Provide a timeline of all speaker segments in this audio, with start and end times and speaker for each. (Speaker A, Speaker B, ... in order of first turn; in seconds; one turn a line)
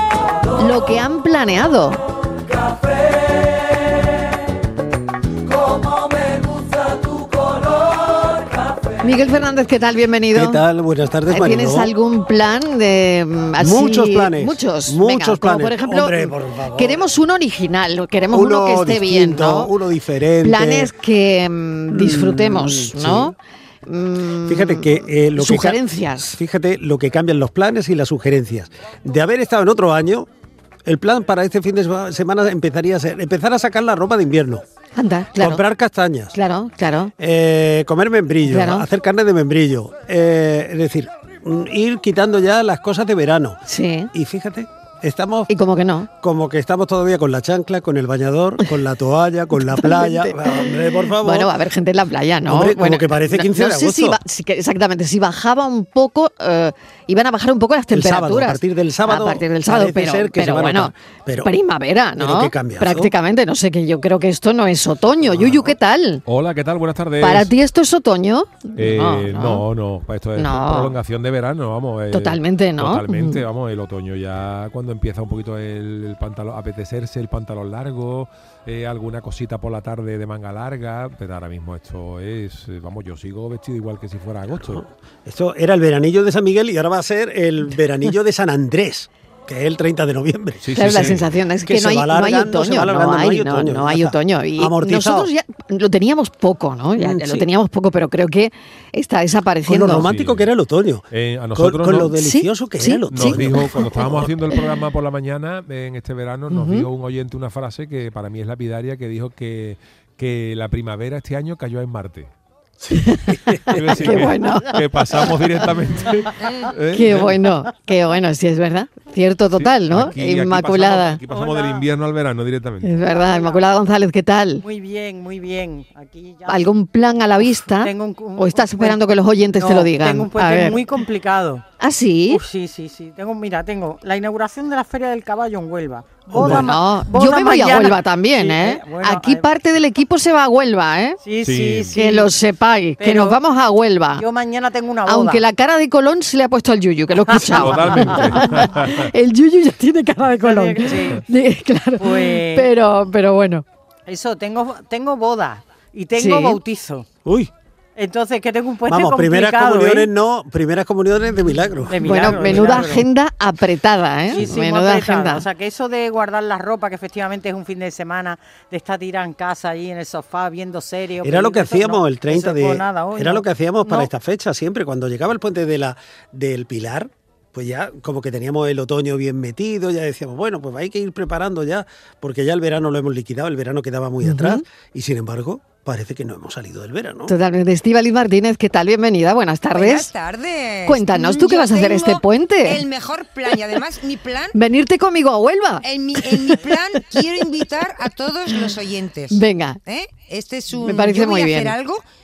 Speaker A: 0.6-2.0
Speaker A: 9.0-10.6
Speaker B: 10.3-11.9
Speaker A: 11.3-19.7
Speaker B: 13.6-17.0
Speaker B: 18.3-20.9
Speaker A: 20.4-26.3
Speaker B: 21.9-23.3
Speaker B: 24.5-30.3
Speaker B: 30.9-34.6
Speaker A: 34.9-35.6
Speaker B: 35.4-36.3
Speaker A: 36.3-37.1
Speaker B: 37.2-43.6
Speaker A: 38.4-38.9
Speaker A: 43.7-44.1
Speaker B: 44.1-45.5
Speaker A: 45.5-46.1
Speaker B: 46.2-51.5
Speaker A: 49.5-50.7
Speaker A: 51.2-60.9
Speaker B: 52.5-54.2
Speaker B: 57.9-61.5
Speaker A: 61.4-66.2
Speaker B: 62.2-63.1
Speaker C: 66.2-67.5
Speaker A: 67.2-69.6
Speaker C: 68.8-84.8
Speaker A: 70.3-71.0
Speaker A: 72.1-73.4
Speaker B: 84.6-95.3
Speaker C: 90.6-91.2
Speaker A: 90.7-100.0
Speaker B: 97.0-97.5
Speaker B: 99.7-104.3
Speaker C: 100.0-100.5
Speaker C: 101.1-102.1
Speaker A: 102.2-104.0
Speaker C: 103.1-112.3
Speaker A: 106.5-106.9
Speaker B: 112.8-113.8
Speaker A: 113.0-114.8
Speaker C: 113.7-117.4
Speaker A: 116.9-121.2
Speaker C: 119.5-123.1
Speaker D: 121.3-121.9
Speaker A: 122.8-124.6
Speaker D: 123.1-123.7
Speaker D: 124.6-126.7
Speaker A: 126.5-130.8
Speaker D: 127.7-131.6
Speaker A: 131.8-132.4
Speaker D: 132.3-139.5
Speaker B: 136.3-136.6
Speaker A: 136.4-141.2
Speaker D: 141.2-142.3
Speaker C: 141.4-142.0
Speaker A: 141.9-144.2
Speaker D: 143.0-143.4
Speaker D: 144.2-145.4
Speaker A: 145.1-153.6
Speaker D: 147.3-148.4
Speaker C: 147.5-149.1
Speaker D: 150.4-151.2
Speaker D: 152.0-152.7
Speaker D: 154.1-157.1
Speaker A: 156.2-156.6
Speaker B: 157.2-157.5
Speaker D: 158.0-160.1
Speaker B: 158.9-162.9
Speaker D: 161.9-163.0
Speaker A: 162.0-165.4
Speaker D: 164.3-174.1
Speaker B: 171.2-187.3
Speaker A: 184.2-184.6
Speaker A: 187.3-190.1
Speaker E: 189.7-194.5
Speaker A: 190.8-192.8
Speaker A: 194.5-195.8
Speaker E: 195.8-202.0
Speaker A: 196.3-196.6
Speaker A: 199.3-199.8
Speaker A: 200.8-201.7